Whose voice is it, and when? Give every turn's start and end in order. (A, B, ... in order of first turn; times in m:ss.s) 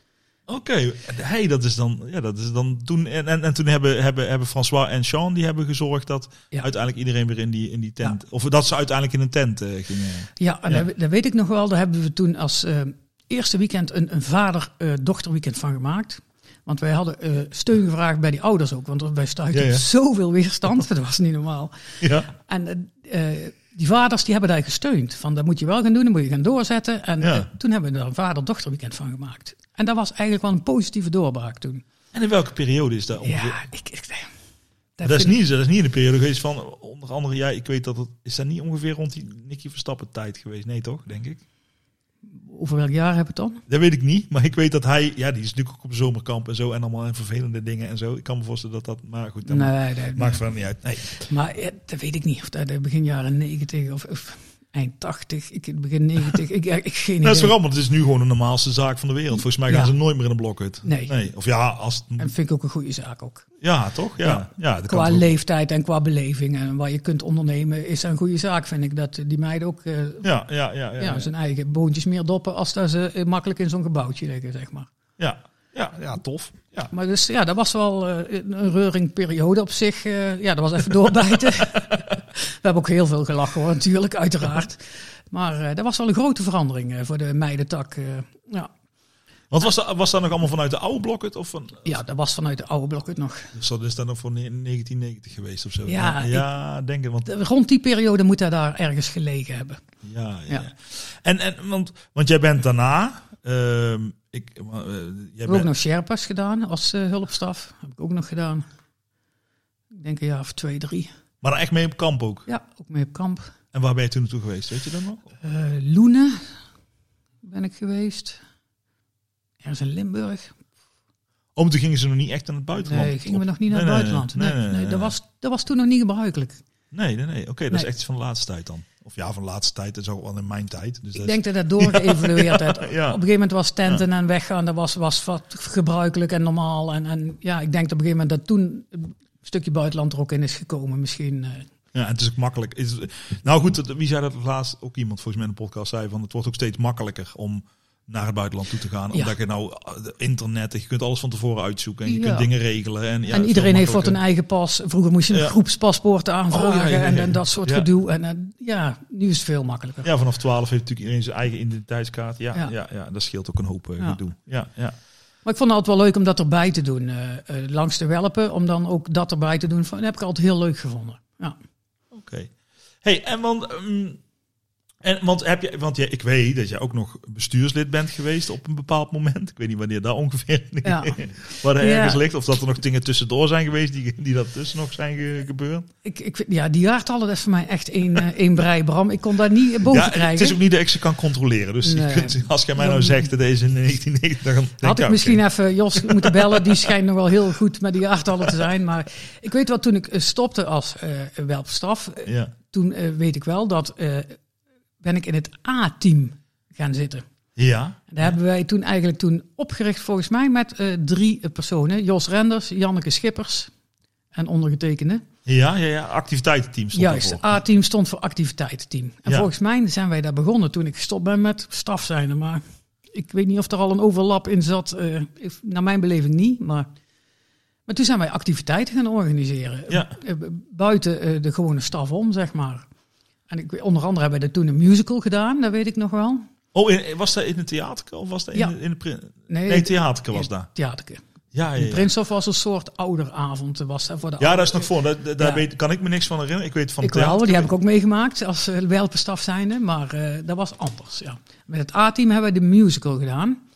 0:00.5-0:10.8 A
0:10.4-0:31.8 B
0:19.5-0:19.8 A
0:22.0-0:22.3 A
0:27.2-0:27.5 A
0:32.1-0:33.6 A
0:33.2-0:34.3 B
0:35.0-0:35.3 B
0:35.0-0:41.4 A
0:42.4-0:43.6 B
0:43.7-0:51.1 A
0:49.4-0:50.4 B
0:51.1-0:57.5 B
0:57.2-1:02.3 A
0:59.7-0:59.9 B
1:00.8-1:01.1 B
1:02.2-1:03.5 B
1:03.6-1:05.3 A
1:04.2-1:10.3 B
1:10.2-1:11.3 A
1:11.0-1:14.9 B
1:15.2-1:16.9 A
1:16.9-1:28.7 B
1:29.5-1:31.9 A
1:31.8-1:33.5 B
1:33.5-1:37.3 A
1:35.8-1:36.5 B
1:37.2-1:39.8 B
1:40.0-1:45.7 A
1:45.5-1:48.6 B
1:49.9-1:51.1 B
1:51.4-1:52.4 A
1:52.5-1:53.5 B
1:53.7-1:55.3 A
1:55.4-1:56.5 B
1:57.4-1:58.4 B
1:59.6-2:00.6 B
2:01.6-2:05.1 A
2:02.8-2:06.6 B
2:06.9-2:13.2 A
2:11.2-2:21.7 B
2:21.9-2:34.2 A
2:32.0-2:32.5 B
2:33.3-2:40.1 B
2:36.5-2:37.9 A
2:40.0-2:44.9 A
2:45.4-2:51.6 B
2:52.1-2:52.5 A
2:53.0-2:54.2 A
2:55.0-3:05.9 A
3:00.8-3:01.2 B
3:01.8-3:02.2 B
3:06.0-3:10.6 B
3:09.8-3:16.9 A
3:11.8-3:13.3 B
3:14.8-3:24.4 B
3:22.3-3:22.5 A
3:25.0-3:27.2 B
3:27.6-3:28.3 A
3:28.1-3:33.7 B
3:34.3-3:35.2 B
3:35.4-3:37.5 A
3:36.9-3:46.9 B
3:47.9-3:52.8 B
3:49.9-3:50.1 A
3:53.5-3:56.4 B
3:56.7-4:00.7 A
3:59.5-4:01.2 B
4:01.5-4:02.1 A
4:01.8-4:05.6 B
4:04.4-4:07.7 A
4:07.0-4:13.6 B